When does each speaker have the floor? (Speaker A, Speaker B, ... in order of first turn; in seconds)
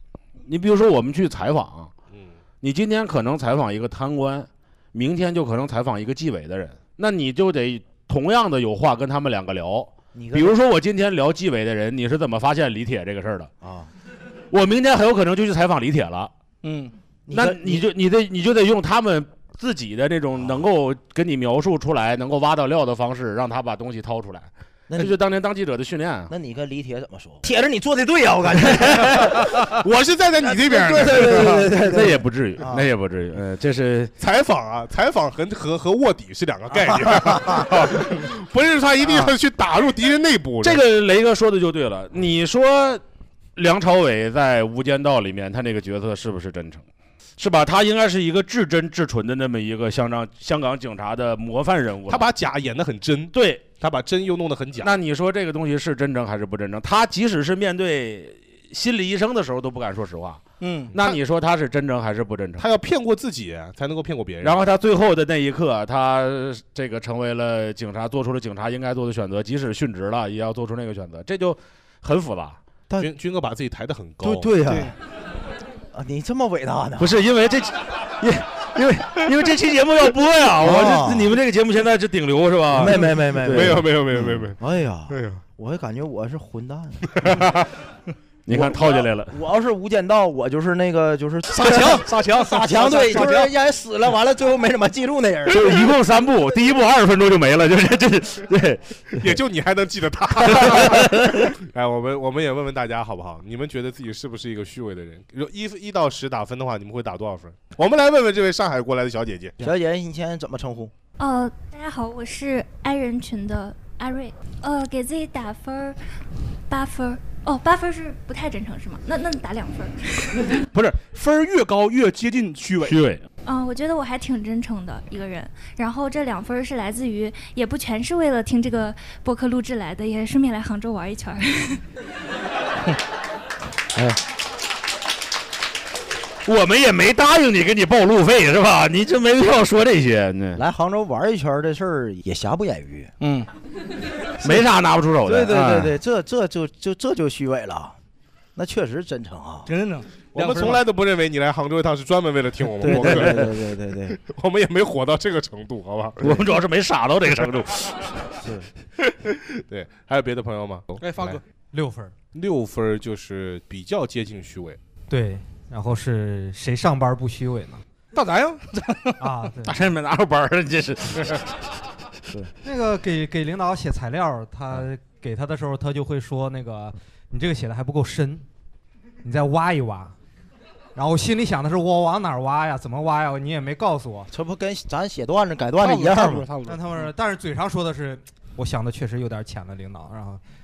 Speaker A: 0.5-1.9, 2.6-13.5, 14.5-16.3, 17.3-26.3, 31.8-34.1, 40.6-43.0, 43.6-46.8, 47.4-52.3, 53.3-53.7, 54.8-60.4, 60.9-62.6, 64.4-72.6, 77.0-84.3, 88.5-89.3, 95.5-99.0, 100.7-101.4, 122.8-123.2, 136.4-140.6, 144.4-146.0, 153.0-153.3, 156.2-158.3, 169.7-171.5
Speaker B: 10.1-10.6, 13.6-13.9, 17.3-17.9, 24.9-25.2, 26.3-29.8, 30.4-32.9, 36.8-37.9, 74.2-75.0, 75.9-77.2, 80.5-81.4, 82.7-87.4, 88.5-96.0, 109.6-110.9, 140.6-143.1, 145.2-148.0, 148.6-149.7, 152.8-154.2, 158.4-158.7, 184.3-186.5
Speaker C: 16.6-16.9, 60.6-60.9, 74.7-74.9, 91.5-93.5, 120.7-123.0, 143.2-143.5, 149.7-150.8, 161.0-161.4, 168.1-169.2, 185.8-186.5
Speaker D: 29.7-31.9, 34.2-40.8, 52.1-54.9, 62.6-64.6, 73.0-74.6, 83.5-84.6, 85.1-85.4, 87.2-87.7, 99.2-109.6, 150.3-156.5, 159.2-161.4, 162.3-164.8, 186.2-186.7
Speaker E: 111.2-116.0, 116.7-120.6, 123.5-131.8
Speaker F: 161.7-162.1, 165.1-167.8, 169.2-169.8, 172.6-178.4, 179.2-180.1, 181.0-184.3, 186.7-190.4